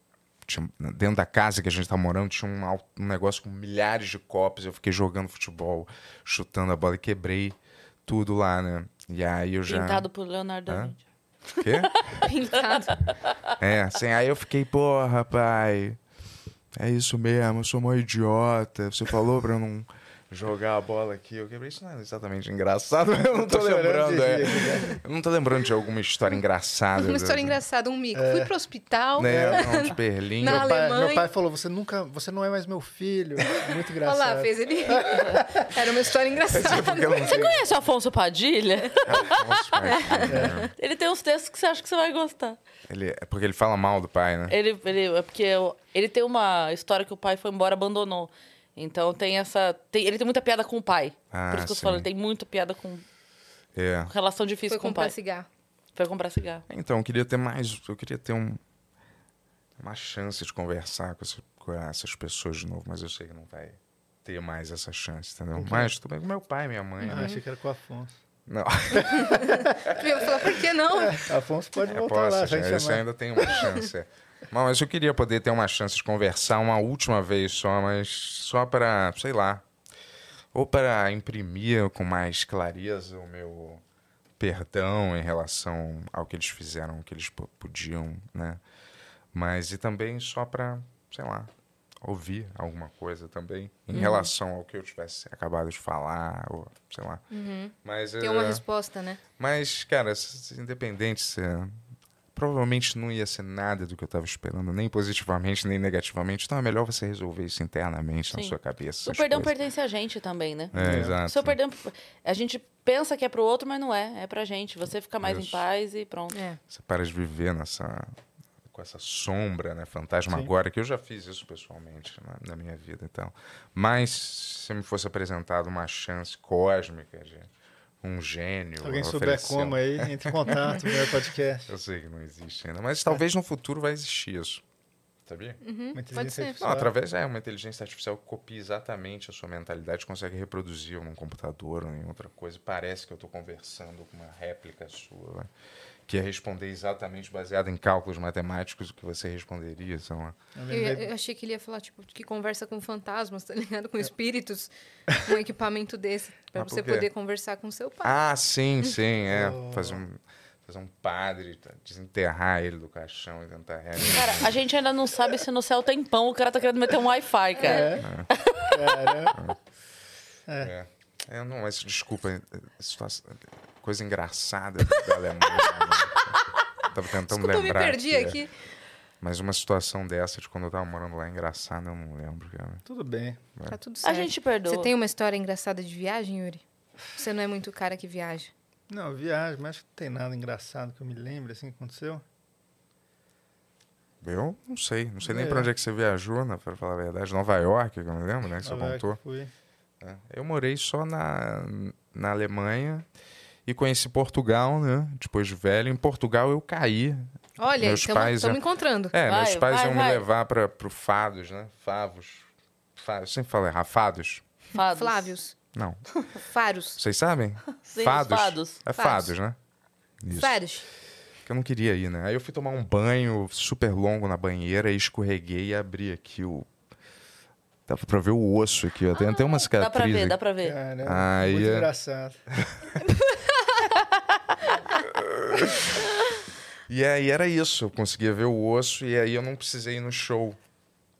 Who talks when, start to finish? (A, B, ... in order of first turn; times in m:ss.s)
0:00.4-0:10.1 A
0:09.7-0:11.0 B
0:10.7-0:10.9 A
0:11.6-0:12.2 A
0:12.2-0:13.0 C
0:13.6-0:16.0 A
0:16.7-0:27.6 A
0:23.3-0:25.0 D
0:27.0-0:31.3 C
0:28.1-0:28.5 D
0:29.2-0:30.7 A
0:29.2-0:29.9 D
0:30.4-0:35.7 D
0:34.0-0:37.4 C
0:36.5-0:37.6 A
0:37.3-0:42.6 B
0:39.0-0:40.7 A
0:40.3-0:40.6 D
0:42.9-0:44.6 A
0:44.5-0:53.0 B
0:51.3-0:52.1 A
0:53.7-0:54.1 A
0:54.1-0:55.1 B
0:54.7-0:55.5 C
0:56.0-0:56.6 B
0:56.7-0:58.6 A
0:59.8-1:07.3 A
1:05.5-1:05.9 D
1:07.0-1:07.4 C
1:07.0-1:08.2 D
1:08.5-1:09.5 A
1:09.0-1:11.2 C
1:09.0-1:09.7 D
1:10.9-1:13.7 D
1:11.8-1:19.6 A
1:20.5-1:23.8 A
1:24.4-1:28.6 A
1:29.3-1:31.5 A
1:32.0-1:37.2 A
1:33.9-1:34.3 C
1:37.3-1:39.2 C
1:37.8-1:38.6 A
1:39.4-1:41.7 A
1:42.3-1:49.5 A
1:48.3-1:56.3 B
1:50.7-1:51.5 A
1:50.7-1:51.2 D
1:55.2-1:55.6 A
1:56.3-1:56.6 C
1:56.7-1:58.1 A
1:58.7-2:07.5 A
2:08.0-2:10.9 A
2:08.8-2:11.7 D
2:11.7-2:14.6 A
2:15.2-2:15.6 A
2:15.6-2:16.6 C
2:15.9-2:16.9 D
2:16.6-2:25.5 A
2:26.1-2:30.3 A
2:30.6-2:31.1 D
2:30.7-2:38.1 C
2:36.6-2:37.1 A
2:38.0-2:44.5 A
2:39.3-2:40.0 D
2:44.0-2:49.1 B
2:47.6-2:47.9 C
2:47.6-2:48.0 D
2:48.0-2:48.3 A
2:48.6-2:49.4 D
2:50.5-2:50.7 D
2:50.6-2:58.4 A
2:57.3-2:58.5 C
2:59.2-3:02.8 A
3:02.8-3:03.4 D
3:03.7-3:06.6 C
3:04.0-3:04.9 B
3:07.2-3:08.5 C
3:08.9-3:12.2 D
3:14.2-3:19.2 A
3:15.2-3:15.7 D
3:18.6-3:19.5 D
3:20.0-3:23.0 A
3:23.6-3:27.3 A
3:27.6-3:29.1 C
3:27.8-3:28.6 A
3:29.1-3:34.4 A
3:29.2-3:30.2 B
3:34.7-3:35.3 B
3:34.8-3:35.6 C
3:35.7-3:36.0 A
3:36.4-3:37.0 C
3:37.0-3:39.6 A
3:37.8-3:38.8 B
3:39.0-3:39.3 C
3:40.2-3:40.6 A
3:40.3-3:40.8 C
3:41.4-3:46.7 A
3:47.9-3:50.4 A
3:49.2-3:50.8 B
3:50.6-3:52.4 D
3:51.0-3:51.9 A
3:55.0-3:56.0 A
3:56.9-4:00.6 A